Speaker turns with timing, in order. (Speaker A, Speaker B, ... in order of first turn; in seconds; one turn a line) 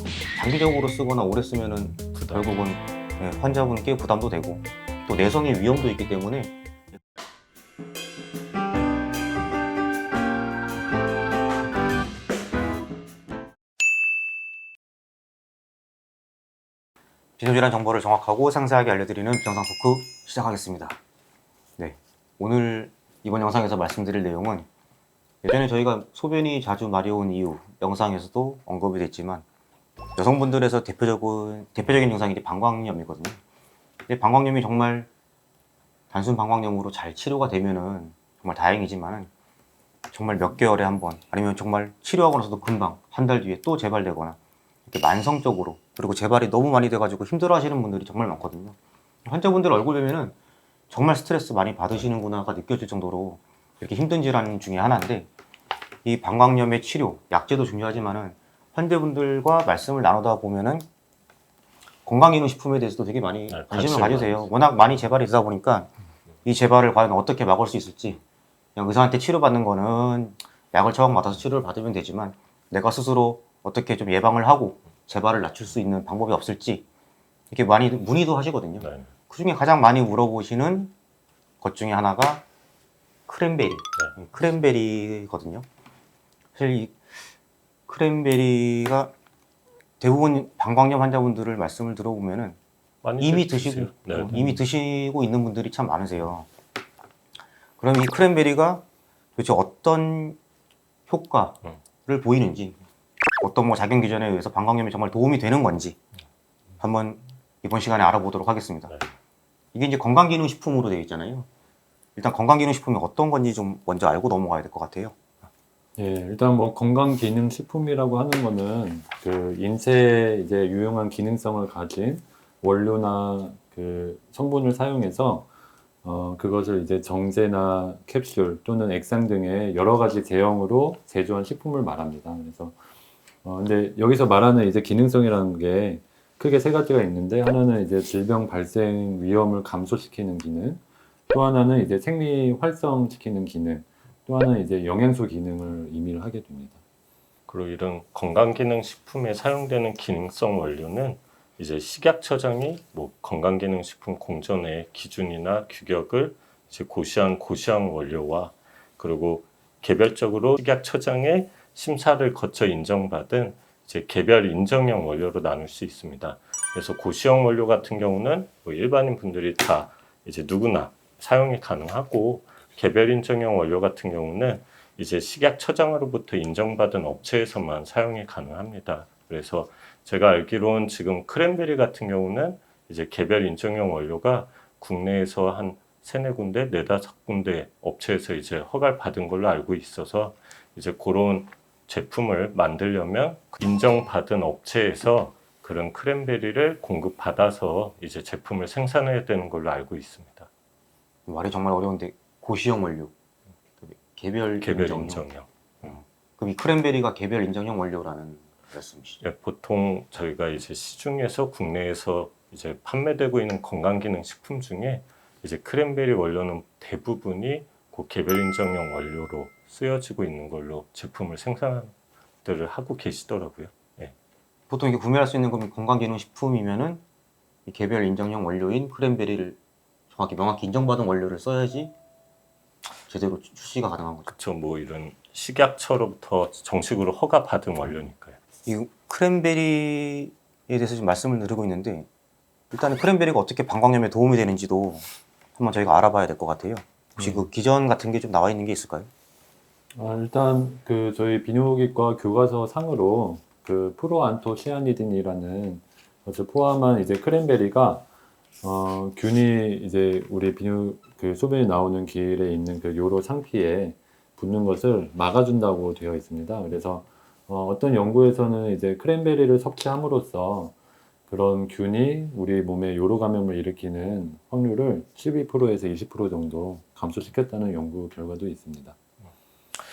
Speaker A: 0.3-6.5
Speaker B: 2.1-2.5
Speaker A: 17.4-21.0
Speaker A: 21.8-24.6
Speaker A: 25.4-29.4
Speaker A: 30.2-33.4
Speaker A: 34.1-35.1
Speaker A: 36.1-39.3
Speaker A: 40.1-50.4
Speaker A: 50.9-55.3
Speaker A: 56.0-60.8
Speaker A: 62.0-65.9
Speaker B: 63.5-64.5
Speaker A: 66.4-68.2
Speaker A: 68.8-76.8
Speaker A: 77.5-80.9
Speaker B: 78.8-79.1
Speaker A: 81.6-82.4
Speaker A: 83.3-85.7
Speaker A: 86.5-87.3
Speaker A: 87.9-89.1
Speaker A: 90.0-92.6
Speaker B: 93.0-94.6
Speaker A: 93.2-96.5
Speaker A: 97.8-98.8
Speaker A: 99.4-100.4
Speaker A: 101.1-102.8
Speaker A: 103.4-106.0
Speaker A: 106.8-108.9
Speaker A: 109.7-111.5
Speaker A: 112.2-115.1
Speaker C: 116.0-125.5
Speaker C: 126.0-132.8
Speaker C: 133.4-146.8
Speaker B: 147.5-200.5
Speaker A: 201.3-203.1
Speaker A: 203.8-205.2
Speaker B: 204.6-205.5
Speaker A: 205.8-209.2
Speaker B: 209.2-221.9
Speaker B: 222.4-224.1
Speaker A: 224.7-227.0
Speaker A: 227.7-229.6
Speaker A: 230.1-231.9
Speaker A: 233.1-234.3
Speaker B: 234.3-238.4
Speaker A: 238.7-242.1
Speaker A: 242.7-249.1
Speaker C: 249.9-258.1
Speaker C: 258.6-270.7
Speaker C: 271.3-278.9